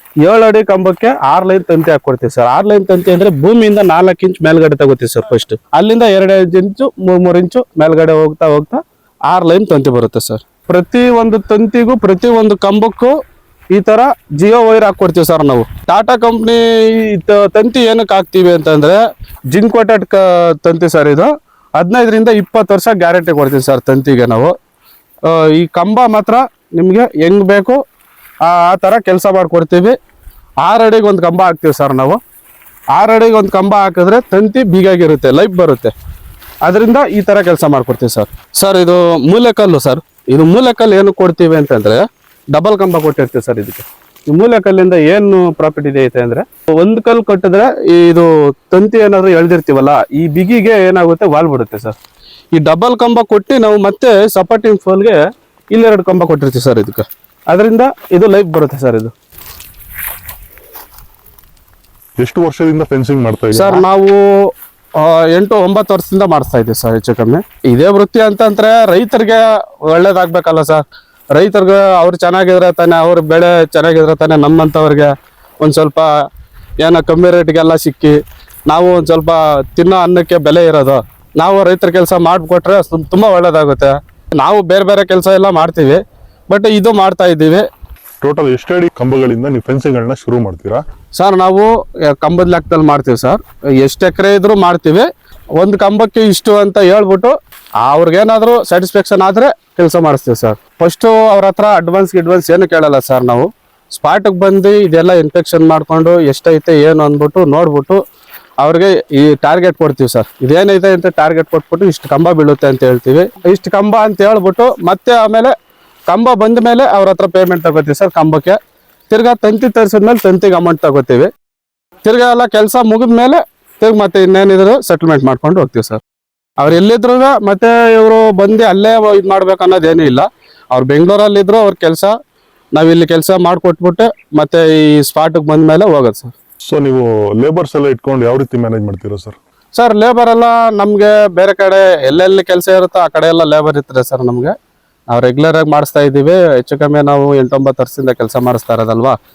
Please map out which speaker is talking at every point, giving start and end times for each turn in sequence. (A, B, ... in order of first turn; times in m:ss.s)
0:00.2-0:13.1 A
0:13.7-0:19.0 A
0:19.5-0:24.5 A
0:25.3-0:27.8 A
0:28.4-0:30.0 A
0:30.6-0:32.2 A
0:32.9-0:35.9 A
0:36.6-0:52.0 A
0:52.6-0:55.2 A
0:55.7-0:59.1 A
1:02.2-1:03.9 B
1:03.5-1:04.2 A
1:05.0-1:10.8 A
1:11.4-1:16.1 A
1:16.8-1:27.7 A
1:28.2-1:30.8 B
1:31.2-1:35.1 A
1:35.6-1:48.0 A
1:48.6-1:55.5 A
1:56.1-1:58.6 A
1:59.1-2:01.3 A
2:02.0-2:06.0 A
2:06.6-2:12.1 A
2:12.7-2:16.3 A
2:16.6-2:19.4 B
2:19.8-2:24.5 A
2:25.1-2:29.2 A